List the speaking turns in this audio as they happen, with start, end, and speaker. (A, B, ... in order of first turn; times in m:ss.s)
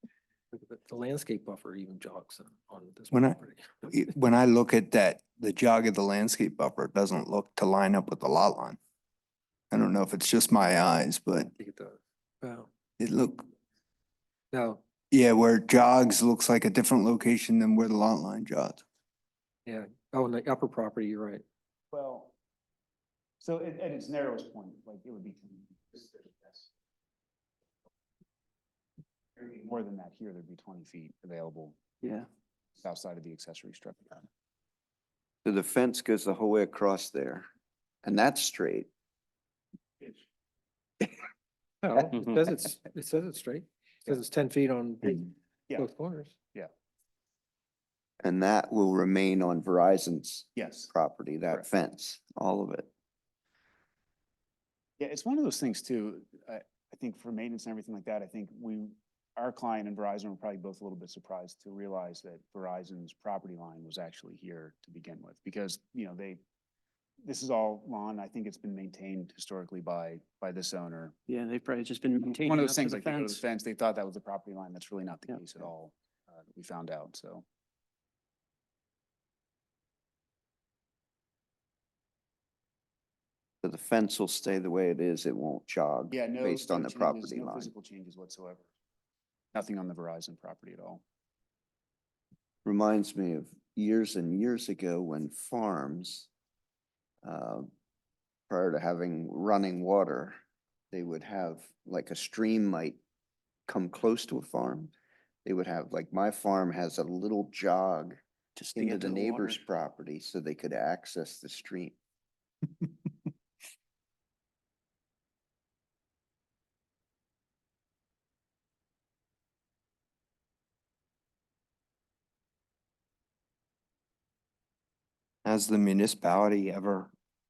0:00.5-0:03.9 A
0:03.1-0:08.8 B
0:09.7-0:11.5 B
0:11.4-0:12.7 A
0:13.0-0:13.5 B
0:14.5-0:14.8 A
0:15.1-0:18.8 B
0:19.7-0:21.4 A
0:21.9-0:22.3 C
0:23.4-0:26.4 C
0:29.6-0:31.8 C
0:32.0-0:32.3 D
0:32.8-0:34.2 C
0:35.4-0:37.5 E
0:38.0-0:38.9 E
0:41.8-0:46.4 A
0:48.2-0:52.9 E
0:50.6-0:50.9 C
0:55.0-1:06.4 C
1:07.2-1:11.2 C
1:11.3-1:13.4 D
1:12.4-1:15.9 C
1:15.3-1:15.7 D
1:16.5-1:17.4 C
1:23.6-1:27.7 E
1:26.1-1:28.7 C
1:29.5-1:31.0 C
1:32.6-1:36.3 E
1:37.2-1:37.7 E
1:38.5-1:40.4 E
1:40.9-1:43.0 E
1:43.7-1:44.9 E
1:45.4-1:48.2 E
1:48.6-1:49.6 D
1:48.7-1:52.0 E
2:05.4-2:07.1 B